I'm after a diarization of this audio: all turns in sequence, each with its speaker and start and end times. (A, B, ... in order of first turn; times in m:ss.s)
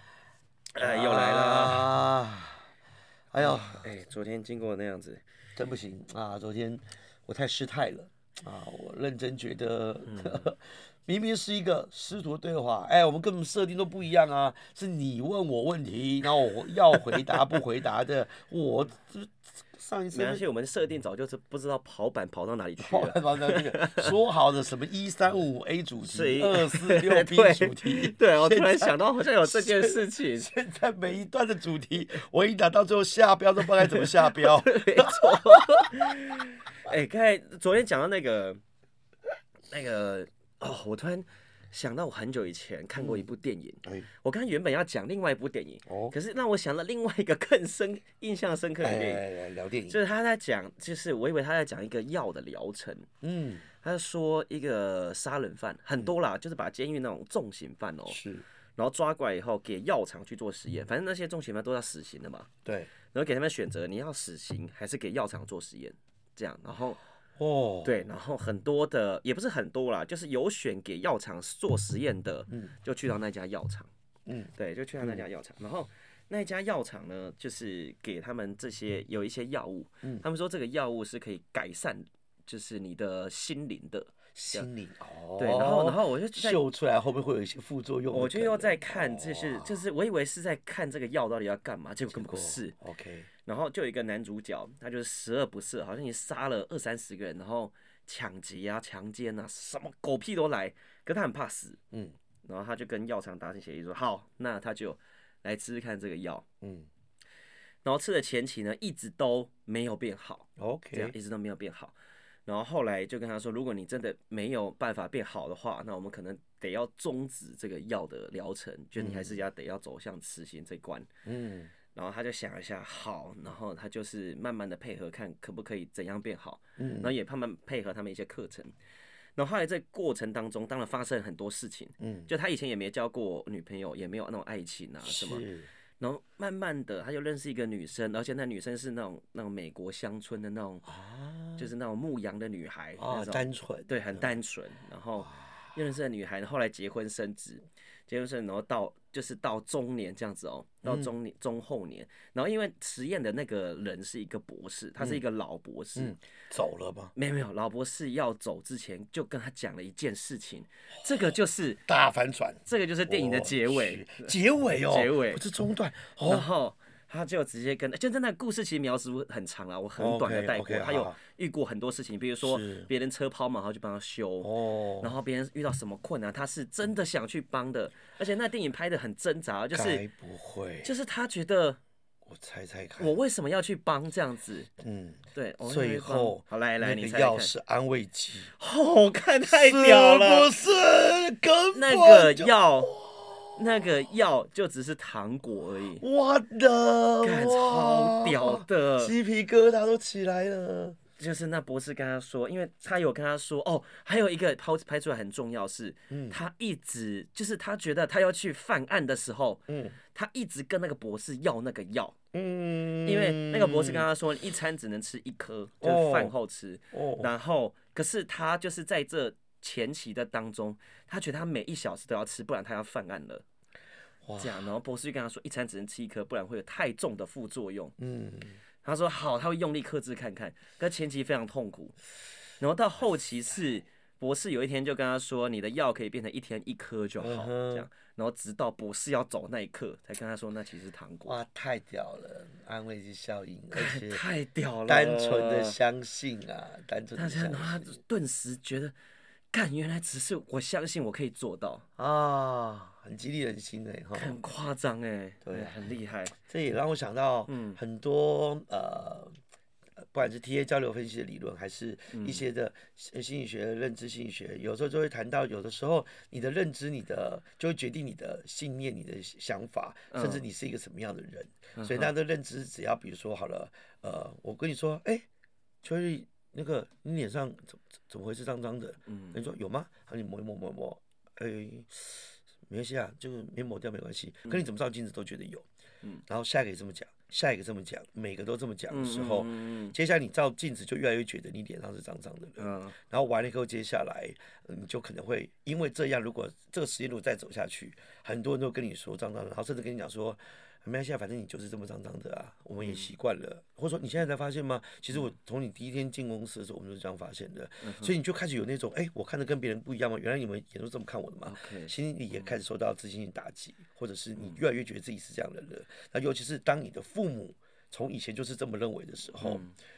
0:00.7-0:01.9 A
0:00.8-0:02.7 B
0:03.3-0:03.9 B
0:03.4-0:05.2 A
0:05.6-0:20.4 B
0:10.0-0:10.5 A
0:17.0-0:17.4 A
0:20.1-0:24.1 A
0:22.8-0:36.0 B
0:26.0-0:30.5 A
0:33.7-0:38.6 A
0:39.7-0:49.3 A
0:43.0-0:43.3 B
0:43.8-0:44.1 B
0:45.9-0:46.1 B
0:48.8-0:50.0 B
0:49.9-0:53.1 A
0:53.2-0:53.7 B
0:53.8-0:58.2 A
0:58.1-0:58.4 B
0:58.8-1:02.5 A
1:02.6-1:02.9 B
1:03.1-1:07.0 A
1:07.4-1:08.0 B
1:07.8-1:13.9 A
1:12.5-1:12.7 B
1:14.2-1:15.2 B
1:14.5-1:24.7 A
1:24.3-1:29.8 B
1:25.4-1:26.6 A
1:28.1-1:32.7 A
1:32.1-1:33.3 B
1:33.4-1:41.8 A
1:42.4-1:46.4 A
1:46.6-1:46.9 B
1:47.8-1:51.9 A
1:50.6-1:51.2 B
1:52.4-2:01.1 A
1:59.0-1:59.4 B
2:01.2-2:01.7 B
2:01.9-2:08.7 A
2:06.8-2:07.1 B
2:09.4-2:15.4 A
2:12.0-2:12.3 B
2:15.0-2:15.7 B
2:16.0-2:20.8 A
2:20.8-2:21.7 B
2:21.6-2:36.2 A
2:23.0-2:24.3 B
2:25.2-2:25.7 B
2:30.8-2:31.1 B
2:36.0-2:37.1 B
2:37.1-2:41.8 A
2:41.8-2:46.5 B
2:42.6-2:45.4 A
2:46.2-3:00.0 A
2:50.0-2:51.2 B
2:52.4-2:52.9 B
2:54.4-2:55.1 B
2:59.7-3:00.9 B
3:00.8-3:01.8 A
3:02.3-3:03.2 B
3:03.0-3:04.7 A
3:04.8-3:08.5 B
3:05.3-3:07.5 A
3:08.5-3:10.5 A
3:09.5-3:13.6 B
3:11.7-3:12.9 A
3:13.5-3:16.0 A
3:16.0-3:21.0 B
3:17.2-3:19.1 A
3:21.2-3:32.2 A
3:26.1-3:26.4 B
3:29.7-3:30.0 B
3:32.3-3:34.1 B
3:33.0-3:43.4 A
3:35.8-3:36.3 B
3:36.9-3:37.3 B
3:44.2-3:44.7 B
3:44.4-3:47.9 A
3:48.0-3:48.6 B
3:48.8-3:52.0 A
3:52.6-4:01.4 A
3:57.2-3:57.9 B
4:01.2-4:04.2 B
4:03.7-4:05.8 A
4:04.9-4:08.0 B
4:07.1-4:08.9 A
4:09.5-4:11.8 A
4:12.0-4:14.4 B
4:14.1-4:16.4 A
4:15.4-4:15.7 B
4:16.5-4:19.4 B
4:17.5-4:17.8 A
4:20.0-4:35.2 B
4:22.1-4:22.4 A
4:30.1-4:30.4 A
4:31.8-4:32.1 A
4:35.8-4:45.6 B
4:39.1-4:39.4 A
4:46.3-5:19.6 B
4:48.9-4:49.9 A
4:52.6-4:53.0 A
5:02.8-5:03.1 A
5:07.8-5:08.2 A
5:11.4-5:12.6 A
5:19.4-5:19.7 A